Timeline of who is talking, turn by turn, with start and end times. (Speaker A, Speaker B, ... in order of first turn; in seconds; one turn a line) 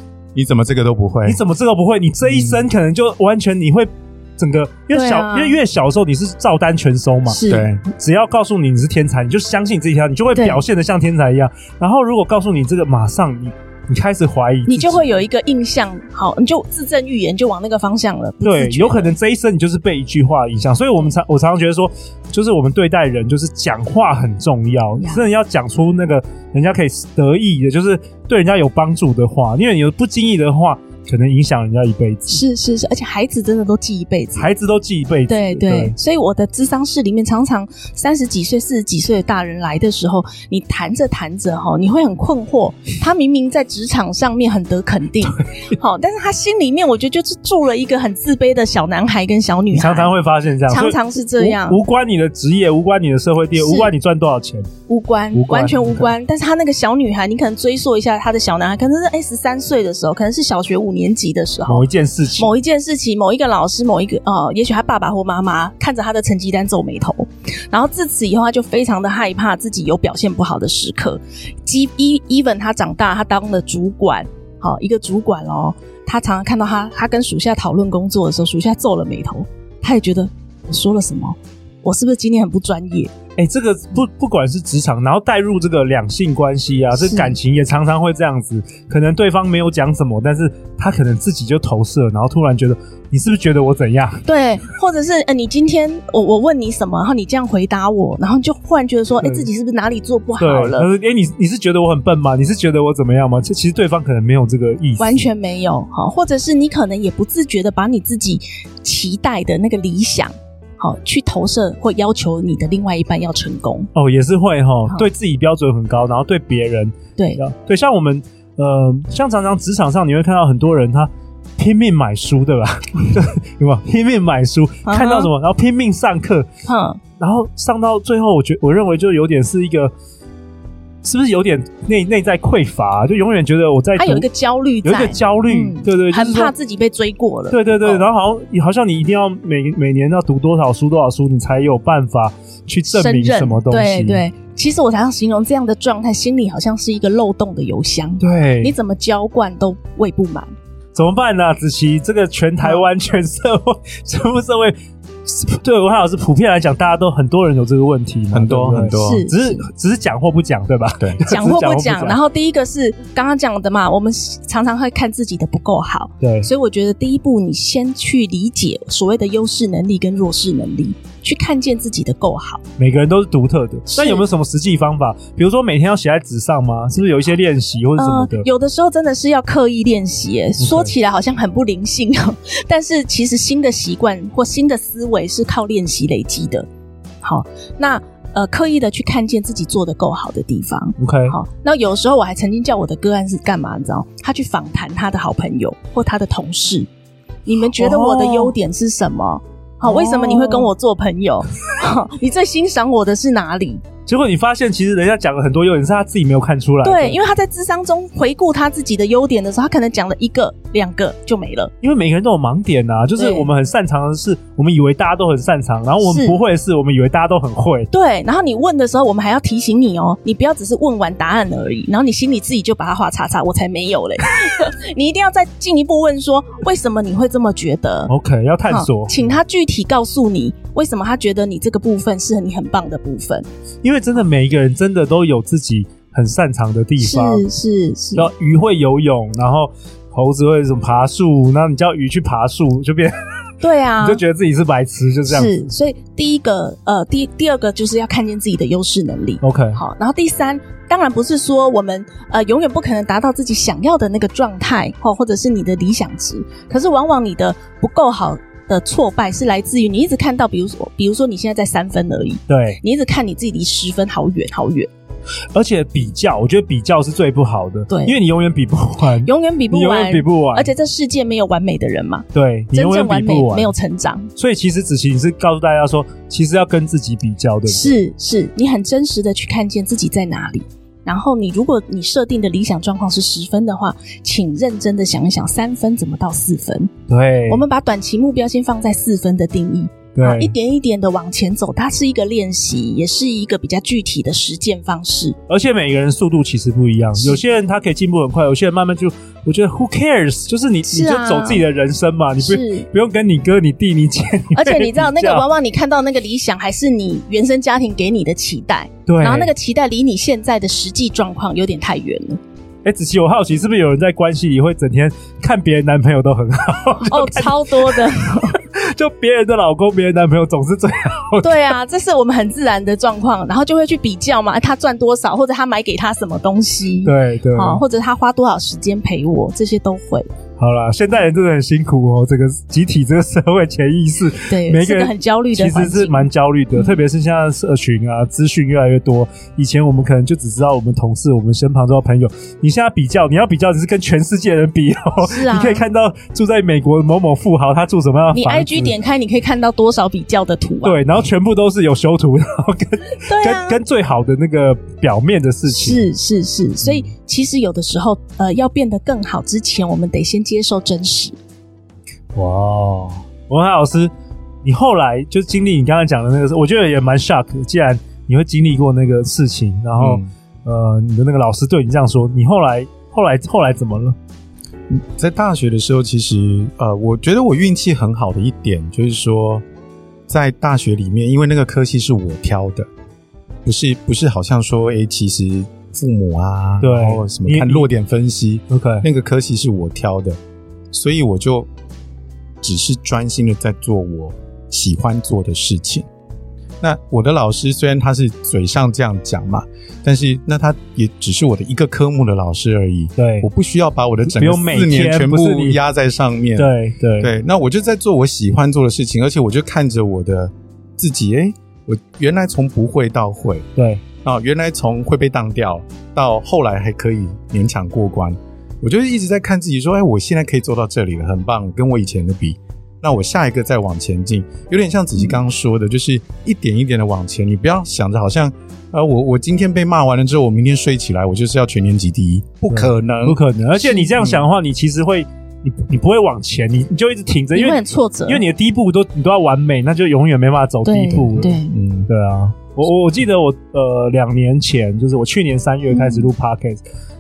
Speaker A: 0.3-1.4
Speaker B: 1.3-15.0
Speaker A: 2.2-2.6
Speaker C: 4.9-5.6
Speaker C: 7.3-7.7
Speaker A: 7.5-7.8
Speaker C: 10.3-10.6
Speaker C: 14.7-19.1
Speaker B: 18.4-32.4
Speaker C: 32.3-34.5
Speaker B: 34.4-36.0
Speaker C: 35.3-50.1
Speaker B: 45.3-45.7
Speaker B: 49.7-54.7
Speaker C: 50.7-51.8
Speaker C: 53.6-53.9
Speaker C: 54.9-83.1
Speaker B: 55.3-56.1
Speaker B: 61.7-62.5
Speaker B: 83.4-94.3
Speaker C: 87.0-87.4
Speaker C: 94.3-100.9
Speaker B: 99.2-99.5
Speaker B: 100.4-105.3
Speaker C: 105.0-113.9
Speaker B: 114.0-126.5
Speaker C: 124.9-125.3
Speaker C: 126.7-127.0
Speaker B: 127.2-129.9
Speaker B: 131.0-134.3
Speaker C: 134.0-138.1
Speaker B: 134.8-136.5
Speaker B: 137.5-144.2
Speaker C: 142.9-150.5
Speaker B: 148.2-148.7
Speaker B: 150.9-162.2
Speaker A: 158.3-159.3
Speaker C: 158.9-159.6
Speaker C: 161.3-172.6
Speaker B: 166.2-166.5
Speaker B: 172.8-178.5
Speaker C: 173.9-174.2
Speaker C: 178.0-186.7
Speaker B: 180.6-180.9
Speaker C: 187.2-196.9
Speaker B: 191.0-191.4
Speaker C: 197.5-203.8
Speaker B: 197.8-198.5
Speaker B: 199.8-200.7
Speaker B: 204.1-207.2
Speaker C: 206.8-211.7
Speaker B: 211.8-217.9
Speaker C: 213.2-213.5
Speaker C: 216.0-216.4
Speaker C: 217.9-228.1
Speaker B: 228.1-229.4
Speaker C: 228.7-233.4
Speaker B: 233.8-237.4
Speaker C: 237.0-238.3
Speaker B: 238.2-243.2
Speaker C: 243.6-244.2
Speaker B: 244.0-245.5
Speaker C: 245.3-264.9
Speaker B: 249.4-249.8
Speaker B: 262.5-262.8
Speaker B: 265.5-270.7
Speaker C: 267.9-268.2
Speaker C: 269.2-274.3
Speaker B: 272.3-273.7
Speaker B: 274.4-278.0
Speaker C: 277.7-286.9
Speaker B: 287.1-287.6
Speaker C: 287.5-295.4
Speaker B: 290.1-290.5
Speaker B: 295.5-305.4
Speaker C: 300.9-301.6
Speaker C: 302.4-302.9
Speaker C: 304.5-312.4
Speaker B: 309.1-309.5
Speaker B: 312.9-321.7
Speaker C: 317.1-318.6
Speaker C: 321.4-330.3
Speaker B: 327.0-327.8
Speaker B: 330.6-348.9
Speaker C: 334.5-337.0
Speaker C: 345.2-345.8
Speaker C: 348.3-351.0
Speaker B: 350.8-356.0
Speaker C: 353.3-353.8
Speaker C: 355.7-361.4
Speaker B: 362.4-364.1
Speaker B: 364.6-374.2
Speaker A: 370.0-370.3
Speaker A: 374.9-379.6
Speaker A: 380.3-382.9
Speaker A: 383.6-390.4
Speaker B: 386.8-387.9
Speaker B: 388.7-389.1
Speaker A: 390.9-391.7
Speaker A: 392.6-396.1
Speaker A: 396.8-413.7
Speaker B: 403.2-403.5
Speaker B: 404.3-405.8
Speaker B: 406.6-407.3
Speaker B: 413.8-414.0
Speaker A: 414.2-433.4
Speaker B: 432.7-446.8
Speaker C: 433.8-434.1
Speaker C: 437.5-438.4
Speaker C: 440.9-441.8
Speaker A: 441.7-442.1
Speaker C: 445.9-446.3